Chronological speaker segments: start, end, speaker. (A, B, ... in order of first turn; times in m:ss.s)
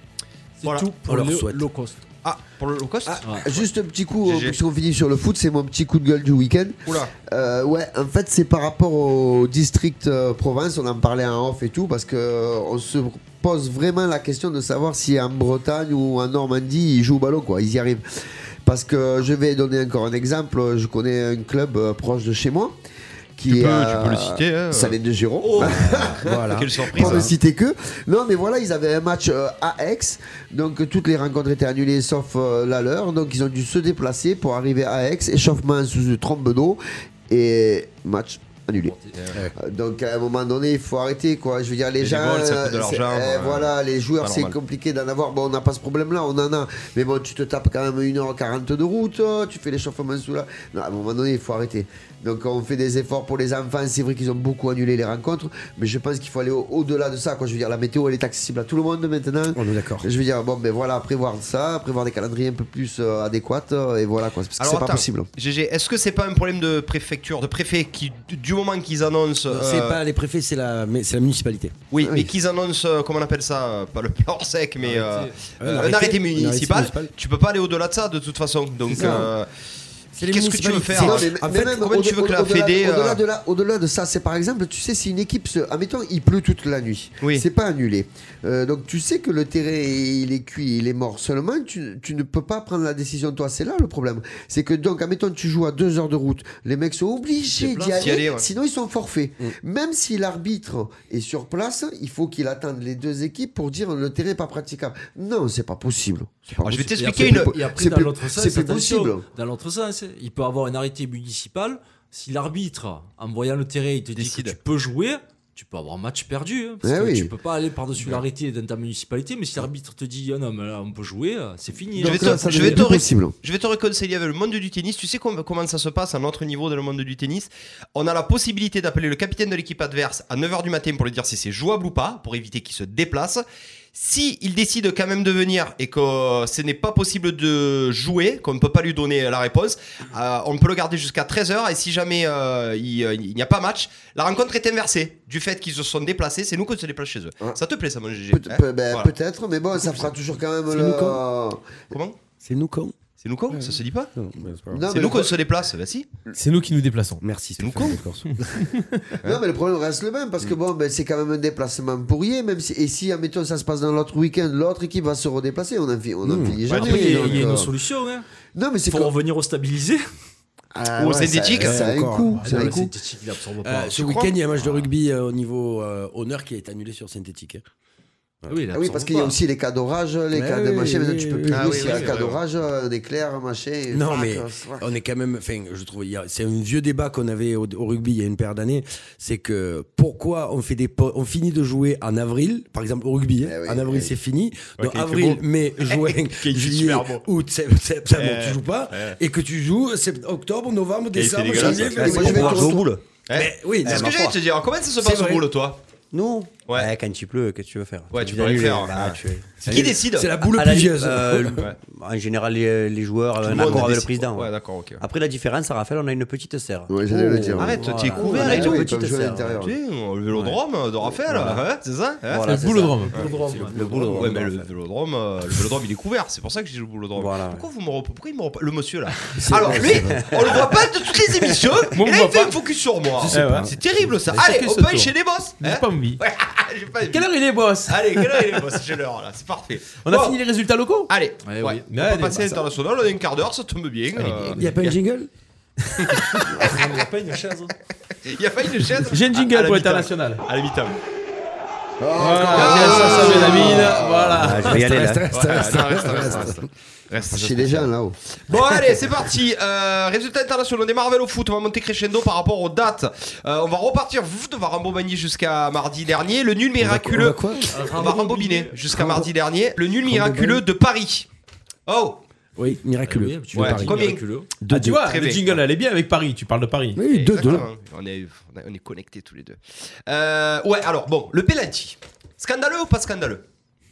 0:00.6-0:02.0 A
0:01.0-0:01.6 B
0:02.2-0:03.6 C
0:03.2-0:18.0 D
0:04.2-0:04.6 C
0:06.8-0:07.1 C
0:18.6-0:22.8 D
0:23.4-0:39.0 D
0:23.5-0:27.3 C
0:25.6-0:27.3 B
0:38.8-0:39.2 A
0:39.6-1:05.2 D
0:42.0-0:44.6 C
0:59.5-1:00.1 B
1:04.6-1:10.0 C
1:09.5-1:11.8 B
1:11.9-1:19.5 C
1:12.0-1:12.3 D
1:14.8-1:15.4 A
1:15.6-1:17.1 B
1:18.9-1:19.3 B
1:18.9-1:19.3 D
1:20.1-1:21.8 B
1:20.2-1:23.2 C
1:20.9-1:49.2 D
1:37.5-1:38.2 A
1:38.0-1:38.5 C
1:46.6-1:47.5 C
1:47.0-2:02.8 A
1:54.2-1:54.6 C
1:56.8-1:57.3 D
2:02.0-2:03.3 D
2:02.0-2:13.4 C
2:13.9-2:29.1 C
2:28.3-2:31.8 D
2:30.7-2:31.2 B
2:31.9-2:32.2 C
2:32.4-2:32.9 B
2:33.2-2:34.1 C
2:33.5-2:34.8 B
2:34.7-2:35.3 D
2:34.9-2:36.0 C
2:36.3-2:37.2 E
2:37.2-2:38.7 B
2:37.6-2:38.0 C
2:39.2-2:47.7 D
2:46.2-2:46.6 B
2:46.7-2:47.5 C
2:46.8-2:48.2 A
2:48.5-2:49.1 D
2:48.9-2:50.0 A
2:50.7-2:52.9 D
2:51.0-2:51.9 C
2:51.6-2:52.8 B
2:52.4-2:54.8 A
2:53.6-2:57.7 B
2:58.5-2:59.4 A
2:58.7-3:04.8 D
3:00.3-3:01.9 B
3:01.5-3:02.4 C
3:01.8-3:02.1 A
3:03.9-3:22.8 B
3:13.4-3:14.1 D
3:14.8-3:17.2 C
3:18.1-3:19.2 C
3:21.1-3:22.5 C
3:21.5-3:22.8 D
3:21.9-3:23.0 F
3:23.2-3:25.8 C
3:23.3-3:24.1 B
3:23.8-3:24.4 F
3:25.0-3:25.5 B
3:26.1-3:39.7 F
3:28.1-3:30.3 C
3:29.6-3:31.7 B
3:33.4-3:35.0 C
3:33.5-3:33.8 B
3:36.9-3:39.7 D
3:37.6-3:38.9 C
3:39.6-3:42.6 C
3:40.3-3:40.6 F
3:41.2-3:41.6 F
3:42.3-3:44.7 F
3:42.4-3:43.1 E
3:43.0-3:43.9 A
3:43.1-3:57.3 C
3:47.2-3:47.6 F
3:49.4-3:50.3 B
3:49.5-3:51.7 F
3:51.9-3:52.6 E
3:53.2-3:53.7 B
3:53.2-3:53.7 E
3:54.2-3:56.2 E
3:57.1-3:58.6 E
3:57.8-4:00.4 C
4:00.0-4:01.1 E
4:01.1-4:04.7 C
4:01.4-4:01.8 A
4:01.9-4:02.6 E
4:04.6-4:05.3 B
4:05.9-4:06.7 B
4:06.2-4:06.7 C
4:06.6-4:07.7 A
4:08.2-4:11.0 C
4:09.1-4:10.4 E
4:12.0-4:14.5 D
4:12.2-4:14.8 E
4:12.5-4:13.9 C
4:14.4-4:15.3 F
4:14.5-4:16.6 B
4:15.3-4:17.9 C
4:16.2-4:16.5 D
4:17.3-4:18.2 D
4:18.5-4:31.3 C
4:26.8-4:27.8 B
4:27.7-4:28.8 A
4:28.9-4:29.3 B
4:30.0-4:30.6 B
4:31.9-4:32.2 C
4:32.6-4:34.1 B
4:33.0-4:34.5 A
4:33.5-4:34.2 C
4:34.6-4:35.0 B
4:34.7-4:37.0 E
4:35.0-4:35.5 C
4:36.9-4:37.7 B
4:37.1-4:43.4 C